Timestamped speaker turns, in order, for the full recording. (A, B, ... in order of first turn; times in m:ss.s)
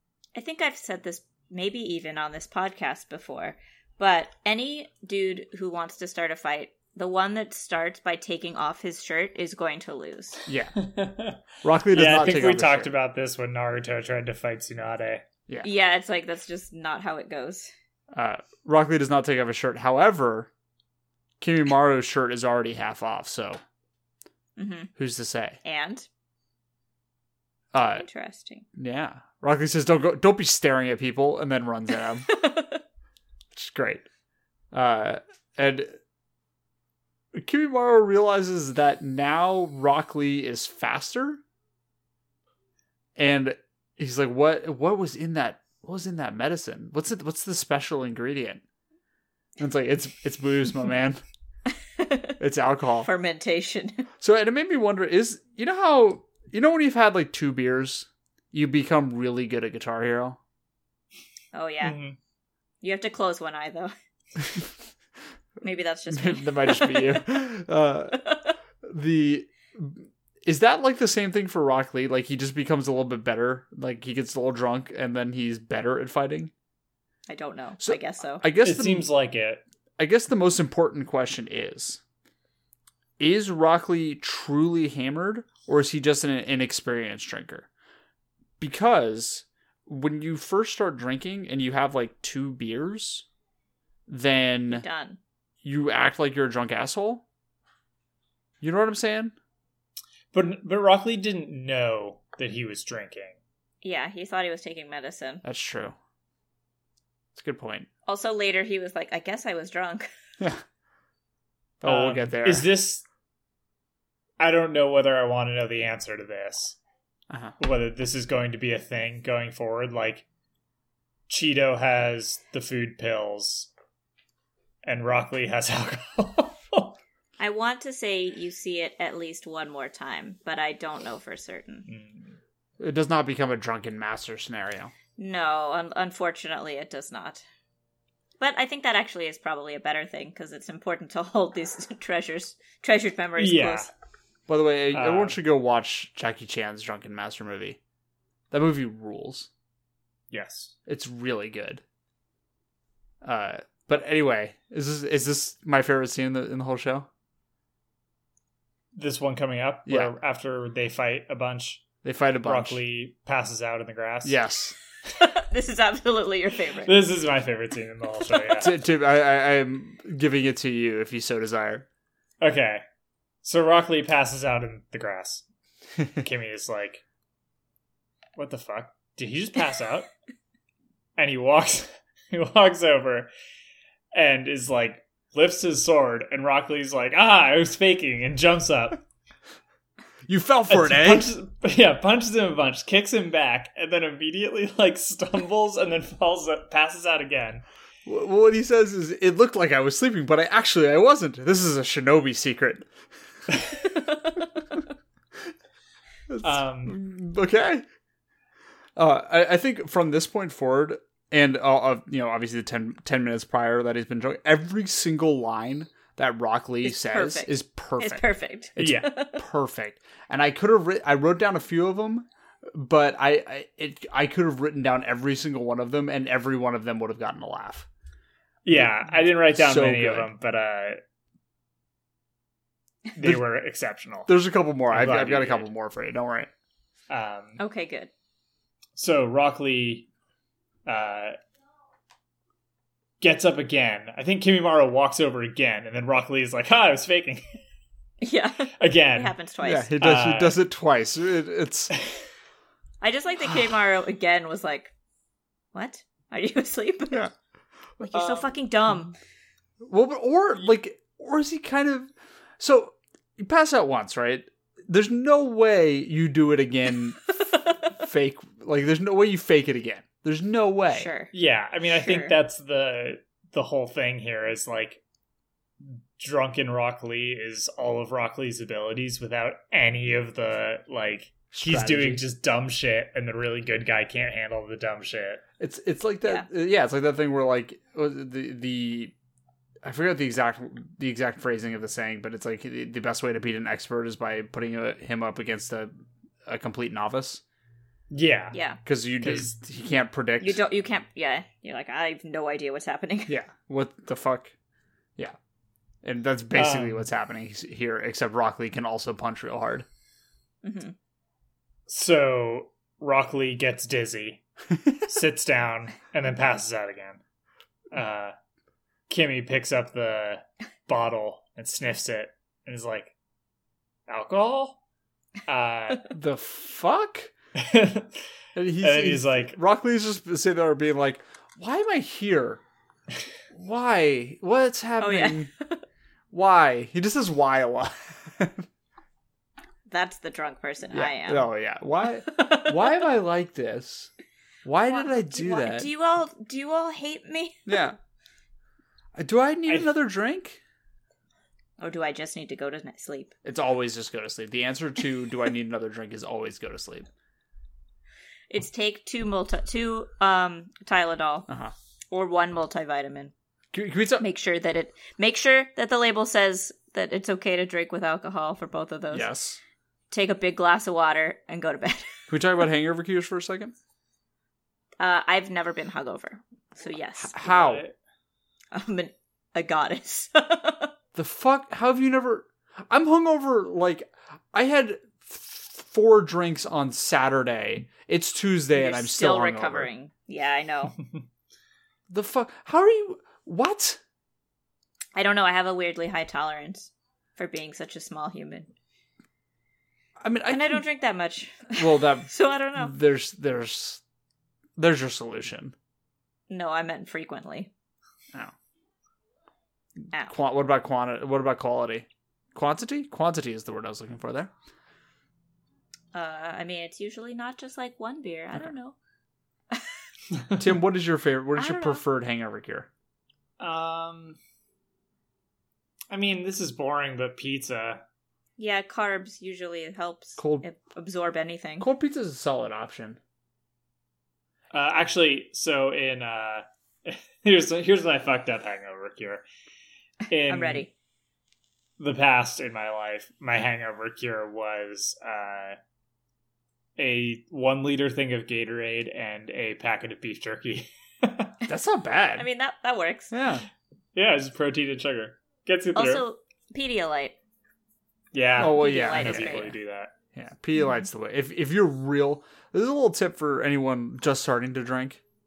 0:00.3-0:10.4 A
0:10.5-0:10.8 B
0:10.8-0:15.2 C
0:11.6-0:12.9 B
0:15.6-0:17.7 A
0:18.1-0:20.5 B
0:21.4-0:23.6 B
0:24.6-0:24.9 A
0:25.0-0:25.6 B
0:25.6-0:26.1 A
0:27.7-0:28.1 B
0:28.0-0:28.6 A
0:28.8-0:32.4 B
0:32.2-0:32.8 A
0:33.5-0:34.0 B
0:34.7-0:36.0 B
0:37.3-0:41.4 B
0:43.2-0:48.6 B
0:49.6-0:51.2 B
0:51.7-0:52.4 A
0:52.4-0:53.1 B
0:53.0-0:54.1 A
0:54.2-1:00.4 B
1:01.5-1:02.0 A
1:01.8-1:02.2 C
1:02.8-1:03.9 A
1:05.6-1:07.3 A
1:06.1-1:16.5 B
1:08.1-1:08.5 A
1:17.3-1:18.4 A
1:17.8-1:19.1 B
1:18.6-1:19.6 C
1:20.0-1:22.0 B
1:23.2-1:27.7 B
1:28.6-1:33.3 B
1:34.1-1:34.8 B
1:34.7-1:35.2 A
1:35.6-1:37.2 B
1:38.6-1:39.4 B
1:40.3-1:43.4 C
1:43.8-1:45.4 A
1:45.4-1:46.0 B
1:47.4-1:47.9 B
1:48.1-1:50.1 A
1:51.8-1:52.7 B
1:51.8-1:53.0 C
1:54.4-1:56.8 C
1:57.3-1:57.6 B
1:57.6-2:00.3 C
2:01.3-2:03.7 C
2:04.8-2:07.0 C
2:07.4-2:11.9 A
2:11.9-2:12.4 C
2:12.8-2:14.9 B
2:15.2-2:17.4 A
2:18.4-2:23.9 A
2:23.4-2:23.9 C
2:24.5-2:27.8 B
2:24.9-2:25.4 C
2:28.5-2:29.5 B
2:30.3-2:30.7 C
2:30.9-2:31.8 B
2:33.2-2:37.1 B
2:39.0-2:41.9 C
2:39.9-2:40.1 B
2:42.0-2:42.8 B
2:42.4-2:44.4 C
2:44.2-2:44.8 B
2:45.1-2:47.0 A
2:46.8-2:48.8 C
2:48.6-2:51.9 B
2:52.4-2:52.8 C
2:53.4-2:55.4 C
2:56.2-2:57.0 C
2:58.4-3:00.1 C
3:01.2-3:03.3 C
3:04.1-3:09.0 C
3:10.3-3:11.3 B
3:10.7-3:17.6 C
3:18.1-3:22.9 B
3:26.3-3:27.8 B
3:26.4-3:27.0 C
3:29.0-3:38.2 B
3:36.8-3:39.4 A
3:38.8-3:47.9 B
3:38.8-3:39.1 C
3:48.6-3:51.0 C
3:48.7-3:50.3 B
3:53.1-3:54.4 C
3:54.3-3:56.5 B
3:54.9-3:55.7 C
3:57.1-3:57.6 C
3:57.6-3:58.1 A
3:59.0-4:00.1 C
4:00.9-4:01.4 C
4:03.2-4:07.6 C
4:08.2-4:09.9 A
4:08.8-4:09.4 C
4:09.6-4:11.9 B
4:10.0-4:10.6 C
4:13.0-4:14.9 A
4:15.7-4:17.3 A
4:18.0-4:19.1 A
4:18.1-4:18.5 C
4:19.8-4:31.1 B
4:30.9-4:31.3 A
4:31.3-4:35.0 C
4:31.9-4:32.4 A
4:35.8-4:45.4 C
4:41.5-4:42.2 B
4:45.6-4:49.1 B
4:49.8-4:55.9 B
4:56.5-4:57.4 B
4:58.1-4:58.6 C
4:58.5-4:58.8 A
4:58.8-5:00.6 B
4:59.2-4:59.5 C
5:00.4-5:03.3 A
5:03.3-5:04.5 B
5:06.0-5:09.9 B
5:06.6-5:07.1 C
5:10.6-5:11.0 A
5:11.9-5:14.4 C
5:15.1-5:17.2 C
5:17.9-5:18.3 C
5:19.1-5:23.1 C
5:24.1-5:24.8 C
5:25.5-5:26.1 C
5:26.1-5:27.3 B
5:27.6-5:28.2 C
5:28.6-5:32.6 B
5:28.8-5:29.6 C
5:33.5-5:35.5 B
5:35.0-5:35.8 A
5:36.3-5:38.6 B
5:39.9-5:41.5 A
5:40.9-5:44.1 B
5:42.3-5:42.9 A
5:44.6-5:45.9 B
5:44.9-5:47.7 A
5:47.6-5:48.0 B
5:49.2-5:50.6 B
5:51.8-5:53.3 A
5:53.4-5:57.1 B
5:58.5-6:01.5 A
6:01.5-6:01.7 B
6:02.1-6:03.3 A
6:03.7-6:04.3 B
6:04.2-6:09.3 A
6:09.1-6:09.6 B
6:10.1-6:12.1 A
6:12.3-6:13.7 B
6:15.0-6:17.4 A
6:17.2-6:17.9 B
6:17.4-6:17.9 C
6:18.7-6:20.9 A
6:21.1-6:29.9 B
6:28.8-6:31.0 A
6:32.1-6:34.0 B
6:35.1-6:38.7 A
6:40.2-6:40.8 B
6:40.5-6:42.9 A
6:41.8-6:44.0 B
6:44.8-6:45.7 B
6:46.5-6:47.7 A
6:50.2-6:54.5 B
6:56.1-6:59.0 A
7:00.6-7:02.9 B
7:01.6-7:02.0 A
7:03.6-7:04.4 C
7:06.1-7:08.0 C
7:08.6-7:11.9 A
7:10.4-7:10.7 B
7:11.8-7:13.2 B
7:14.7-7:19.4 C
7:20.3-7:20.9 C
7:20.5-7:20.9 A
7:22.0-7:25.8 C
7:27.0-7:31.6 C
7:31.7-7:32.5 B
7:32.4-7:33.3 A
7:33.3-7:33.6 B
7:34.1-7:36.2 C
7:36.0-7:37.4 A
7:38.3-7:40.1 C
7:38.6-7:39.7 B
7:38.6-7:39.8 A
7:40.3-7:45.2 B